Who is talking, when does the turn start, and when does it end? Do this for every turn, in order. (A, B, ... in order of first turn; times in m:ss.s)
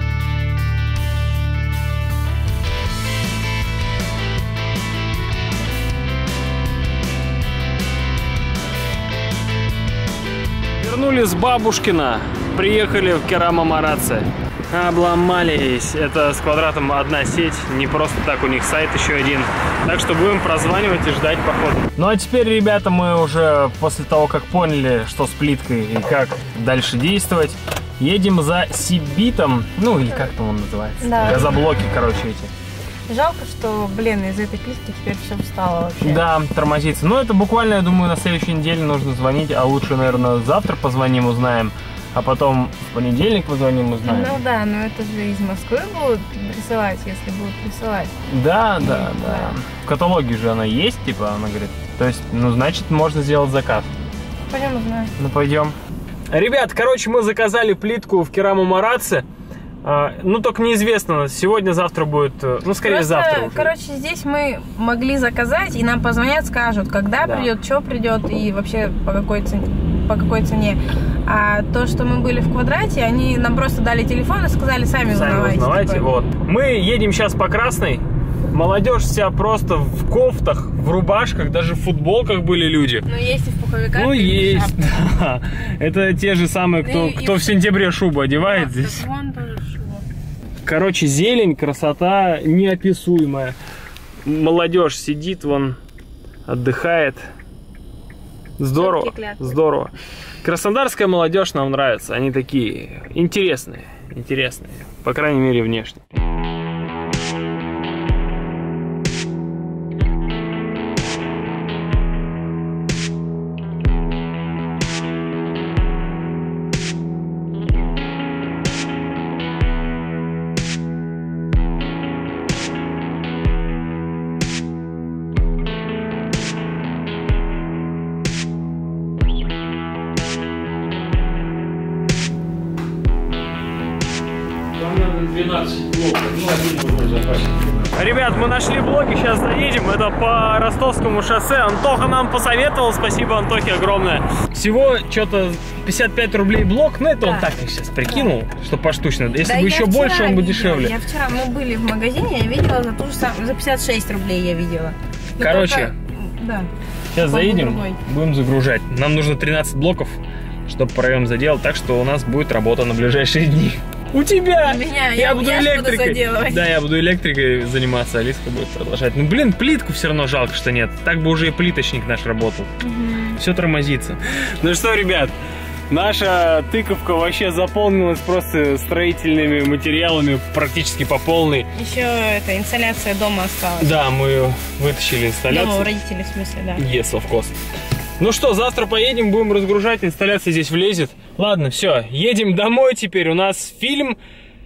0:10.8-0:32.5 A
0:31.0-0:31.4 B
0:33.1-0:36.2 B
0:36.0-0:44.4 A
0:44.0-0:48.1 B
0:48.3-0:53.9 A
0:48.8-0:49.5 B
0:54.5-0:55.1 B
0:55.2-0:55.8 A
0:56.3-0:59.3 A
0:59.8-1:03.7 A
1:02.8-1:16.1 B
1:07.2-1:07.5 A
1:15.1-1:23.1 A
1:23.1-1:24.9 B
1:23.9-1:29.1 A
1:26.8-1:27.6 B
1:28.4-1:30.0 B
1:30.6-1:33.6 A
1:34.2-1:35.8 A
1:36.5-1:37.3 A
1:38.6-1:46.0 A
1:38.8-1:39.6 B
2:14.8-2:31.0 A
2:27.2-2:27.5 B
2:29.4-2:36.7 B
2:35.4-2:35.9 A
2:37.1-2:52.7 A
2:37.2-2:38.0 B
2:44.6-2:46.7 B
2:52.8-2:53.4 B
2:53.4-2:55.3 A
2:55.9-3:01.7 A
3:01.7-3:04.0 B
3:03.8-3:05.9 A
3:05.5-3:06.8 B
3:06.8-3:07.6 A
3:08.2-3:14.2 A